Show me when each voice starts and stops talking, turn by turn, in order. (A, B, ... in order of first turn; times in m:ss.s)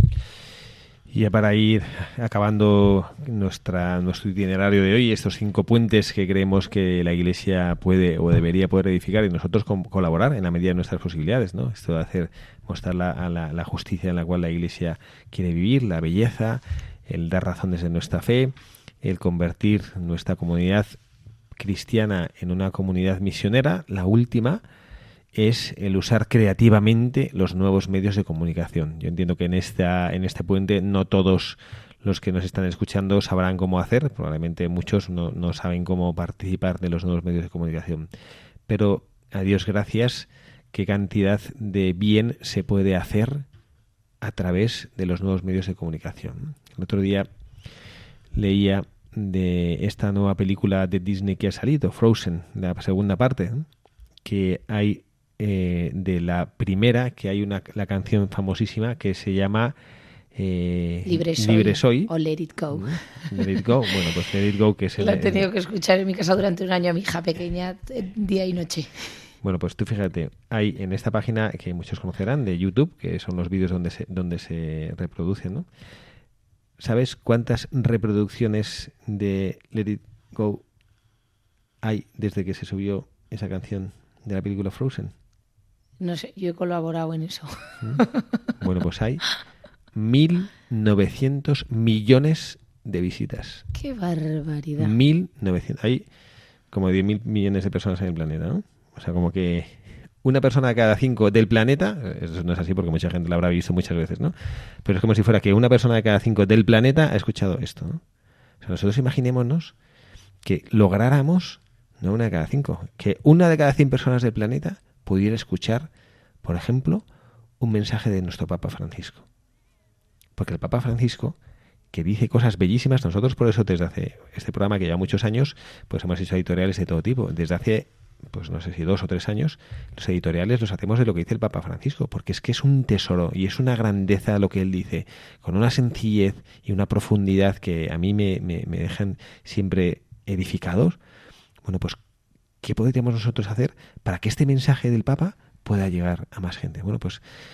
0:01.1-0:21.0 A
0:21.5-0:24.6 A
0:25.3-0:38.1 A
0:38.7-0:43.4 A
0:44.2-0:47.3 A
0:48.3-0:53.7 A
0:54.2-0:59.7 A
1:00.3-1:02.1 A
1:01.0-1:03.3 B
1:02.7-1:05.5 A
1:05.0-1:08.9 B
1:09.4-1:15.7 A
1:16.8-1:20.6 A
1:21.8-1:25.1 A
1:26.0-1:28.2 B
1:28.6-1:29.2 A
1:29.9-1:33.6 A
1:33.7-1:34.9 B
1:34.8-1:36.0 A
1:36.7-1:44.3 A
1:44.8-1:48.0 A
1:48.6-1:49.7 A
1:50.4-1:55.9 A
1:56.4-1:57.0 A
1:57.6-1:59.2 A
2:00.4-2:01.4 A
2:01.9-2:21.0 A
2:21.6-2:22.0 A
2:22.6-2:27.2 A